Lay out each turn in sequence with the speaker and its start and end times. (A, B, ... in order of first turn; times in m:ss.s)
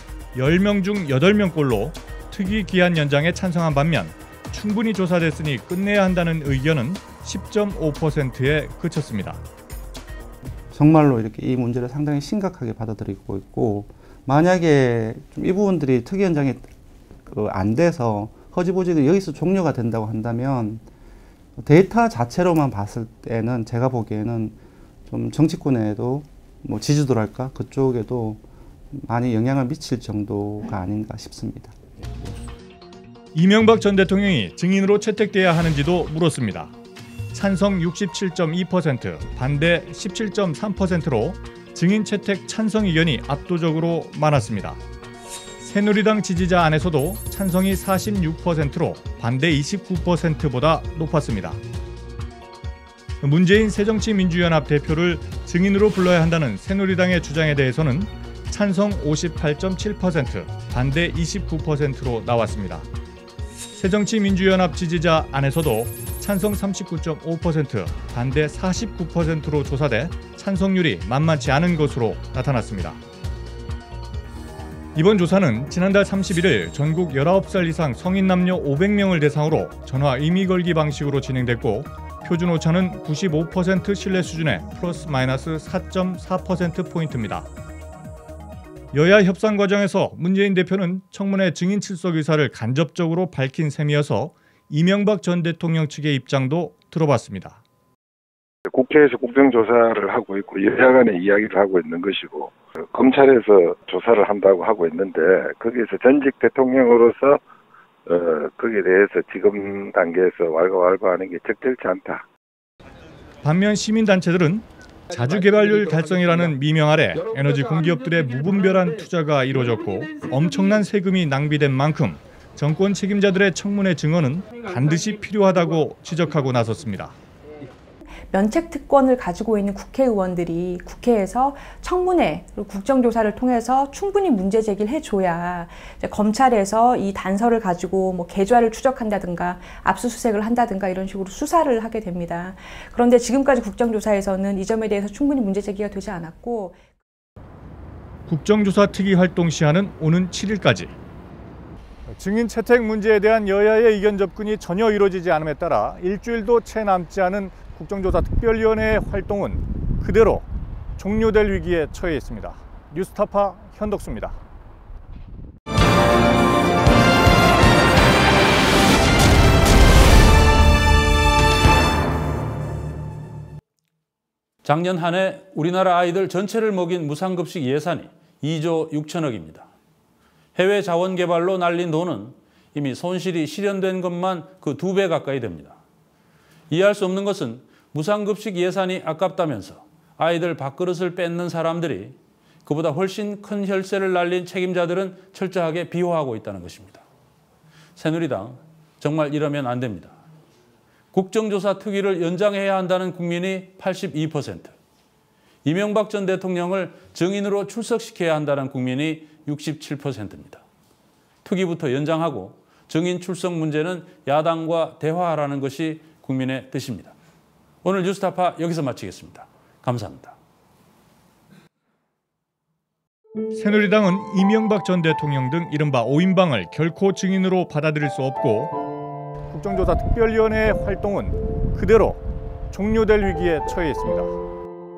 0:00.4-0:09.4 A
0:10.7-0:16.7 B
0:17.3-0:20.9 B
0:21.6-0:31.8 B
0:33.3-0:36.8 A
0:37.3-0:44.8 A
0:45.6-0:51.6 A
0:53.2-1:02.9 A
1:03.8-1:13.0 A
1:15.0-1:27.5 A
1:28.9-1:37.6 A
1:38.7-1:47.4 C
1:48.1-1:52.2 C
1:53.4-2:07.1 A
2:08.3-2:26.9 D
2:28.3-2:30.9 A
2:32.1-2:44.4 A
2:54.6-2:59.7 E
3:00.6-3:05.8 E
3:06.7-3:17.0 E
3:18.0-3:20.2 E
3:21.1-3:24.7 E
3:25.6-3:30.6 E
3:31.4-3:37.1 E
3:37.8-3:40.4 E
3:43.5-3:48.7 A
3:49.5-3:54.3 A